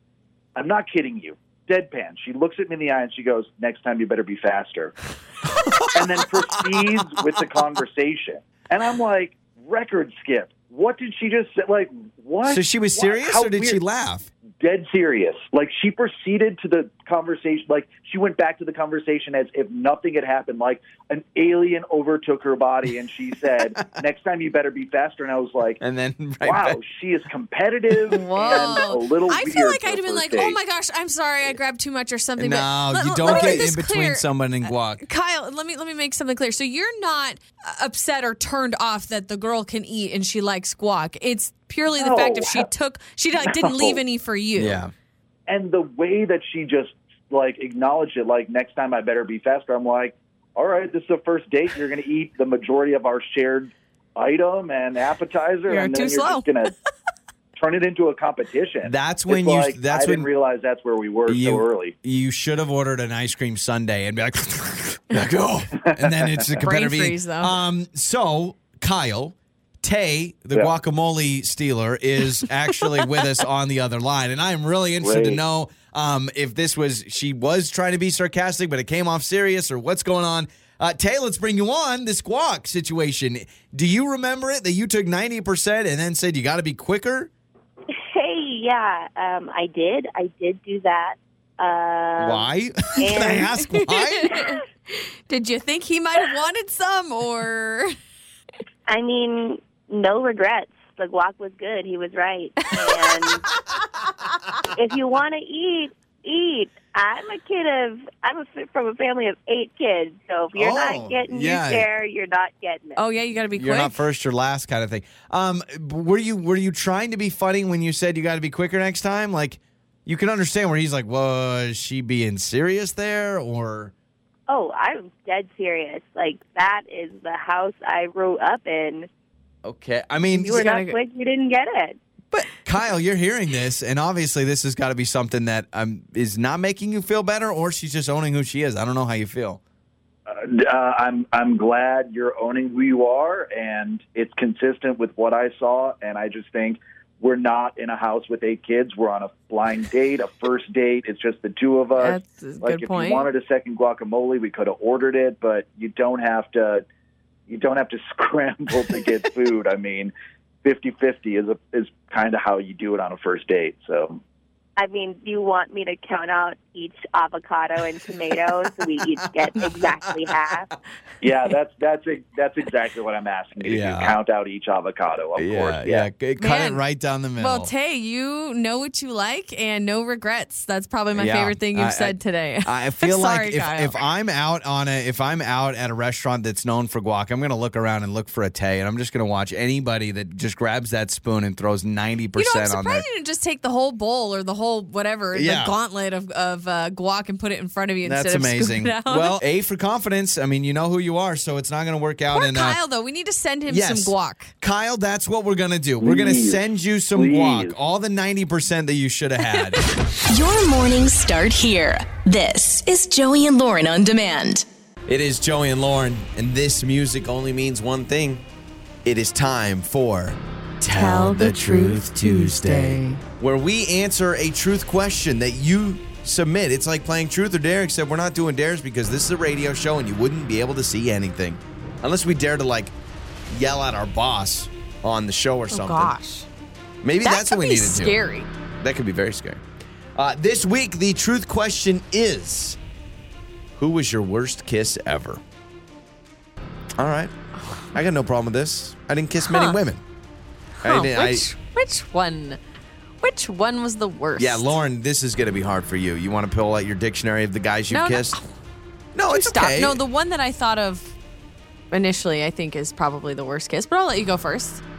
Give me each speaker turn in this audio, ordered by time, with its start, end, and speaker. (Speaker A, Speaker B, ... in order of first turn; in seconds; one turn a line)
Speaker A: 0.5-4.9
Speaker B: 5.5-7.1
Speaker A: 5.8-13.8
Speaker B: 12.4-14.3
Speaker A: 14.6-25.8
Speaker B: 25.8-26.8
Speaker A: 26.4-30.6
Speaker C: 28.1-44.8
Speaker B: 32.4-35.0
Speaker A: 33.3-33.6
Speaker A: 41.9-42.7
Speaker A: 43.4-44.0
Speaker B: 44.6-44.9
Speaker A: 45.5-56.7
Speaker C: 55.7-56.5
Speaker A: 57.5-61.9
Speaker B: 58.8-60.3
Speaker B: 61.3-87.3
Speaker A: 65.8-66.5
Speaker C: 66.6-67.5
Speaker A: 75.0-75.4
Speaker D: 87.9-93.5
Speaker B: 92.2-94.3
Speaker C: 93.2-97.9
Speaker D: 98.9-103.5
Speaker C: 102.7-103.1
Speaker D: 104.7-113.0
Speaker B: 110.5-111.8
Speaker C: 113.0-114.0
Speaker B: 113.6-123.9
Speaker D: 124.5-129.1
Speaker B: 129.6-130.6
Speaker C: 130.3-131.0
Speaker D: 130.4-132.0
Speaker B: 132.3-139.6
Speaker A: 140.3-156.8
Speaker C: 152.0-153.3
Speaker A: 157.5-160.1
Speaker A: 160.6-164.2
Speaker D: 164.8-170.7
Speaker B: 169.2-170.3
Speaker A: 171.2-176.1
Speaker B: 173.6-174.2
Speaker B: 175.4-177.7
Speaker C: 176.4-176.8
Speaker C: 177.4-183.9
Speaker B: 181.1-193.0
Speaker C: 192.3-199.4
Speaker B: 195.3-195.7
Speaker B: 198.0-202.8
Speaker C: 202.3-204.5
Speaker B: 203.7-209.8
Speaker A: 206.0-206.6
Speaker A: 207.1-207.7
Speaker C: 209.5-209.8
Speaker E: 210.3-214.7
Speaker B: 215.1-218.4
Speaker B: 219.0-232.9
Speaker C: 220.8-223.2
Speaker B: 233.5-236.1
Speaker C: 235.7-236.5
Speaker B: 237.0-238.2
Speaker C: 237.2-238.5
Speaker B: 238.8-239.6
Speaker B: 240.1-242.8
Speaker B: 243.8-245.4
Speaker B: 247.0-250.0
Speaker C: 249.4-249.8
Speaker C: 250.8-252.6
Speaker B: 250.8-251.5
Speaker C: 253.2-254.7
Speaker B: 254.4-258.4
Speaker C: 257.9-258.4
Speaker B: 259.1-260.0
Speaker C: 259.3-261.1
Speaker C: 261.9-264.8